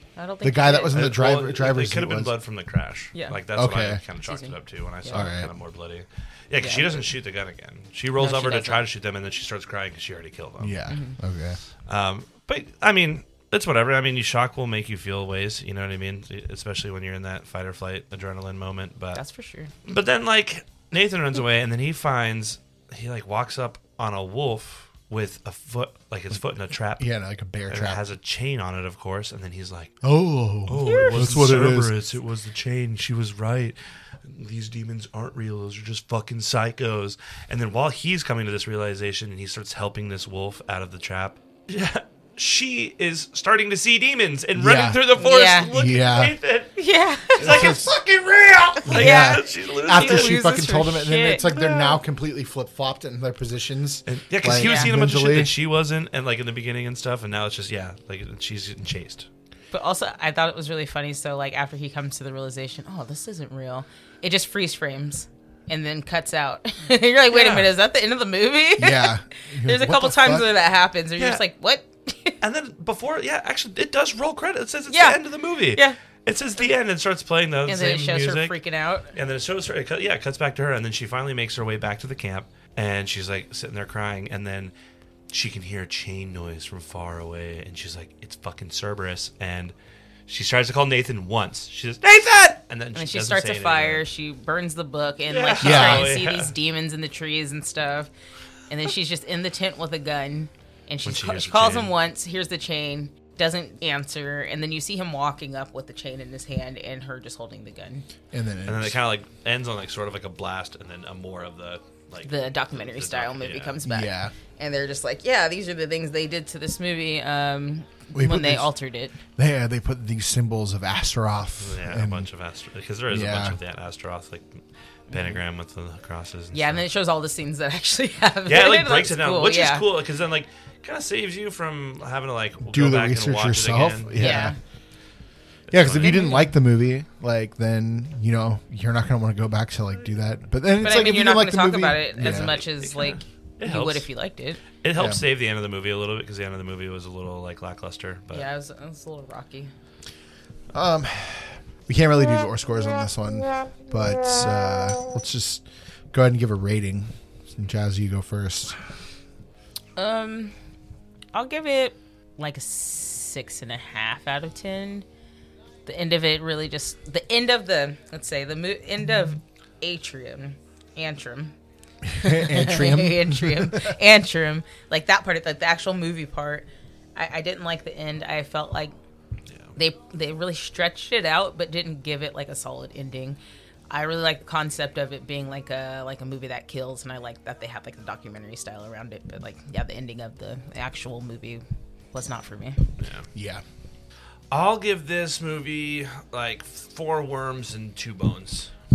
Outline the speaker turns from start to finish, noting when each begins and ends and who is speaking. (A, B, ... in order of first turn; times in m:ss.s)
0:00.2-0:01.0 A
0:00.4-0:02.3 B
0:00.9-0:10.8 C
0:03.5-0:04.0 B
0:04.2-0:05.3 A
0:05.1-0:05.5 B
0:06.6-0:07.1 A
0:08.2-0:08.8 A
0:10.6-0:11.6 B
0:10.9-0:11.2 A
0:11.9-0:19.2 C
0:19.1-0:19.7 A
0:19.8-0:27.1 C
0:27.0-0:28.0 B
0:27.7-0:30.0 C
0:30.0-0:31.9 B
0:30.6-0:46.7 C
0:30.8-0:31.2 A
0:44.6-0:46.4 B
0:45.2-0:45.7 A
0:46.8-0:47.7 A
0:47.3-0:50.4 C
0:47.4-0:48.0 B
0:48.8-0:55.5 B
0:48.9-0:51.8 A
0:54.1-0:59.3 C
0:54.5-0:54.9 A
0:59.7-1:12.4 A
1:07.3-1:07.7 C
1:08.8-1:10.5 B
1:11.2-1:11.4 C
1:12.4-1:18.6 C
1:14.9-1:15.2 A
1:15.7-1:16.0 A
1:17.7-1:19.1 A
1:19.1-1:24.7 C
1:25.3-1:29.7 C
1:30.3-1:34.0 C
1:32.9-1:38.1 A
1:35.3-1:36.5 C
1:35.6-1:36.1 B
1:38.7-1:48.0 A
1:41.0-1:41.9 C
1:48.3-1:49.0 B
1:48.6-1:53.7 C
1:52.2-1:59.1 A
1:53.8-1:54.3 B
1:58.1-1:58.7 B
1:59.4-2:02.3 B
2:01.6-2:06.8 C
2:03.1-2:03.6 B
2:06.5-2:09.9 A
2:08.4-2:14.5 C
2:12.6-2:14.5 B
2:14.2-2:14.6 A
2:15.7-2:16.4 C
2:15.7-2:22.5 B
2:16.0-2:16.5 A
2:20.8-2:24.6 A
2:22.2-2:24.1 C
2:24.8-2:28.5 C
2:24.9-2:25.2 B
2:28.3-2:29.7 A
2:30.7-2:38.8 B
2:40.0-2:40.6 A
2:41.3-2:45.0 A
2:45.8-2:51.5 A
2:52.1-2:53.9 B
2:52.1-2:59.0 A
2:59.7-3:03.4 A
3:03.9-3:12.8 A
3:13.0-3:13.3 C
3:13.3-3:13.6 B
3:14.5-3:18.7 C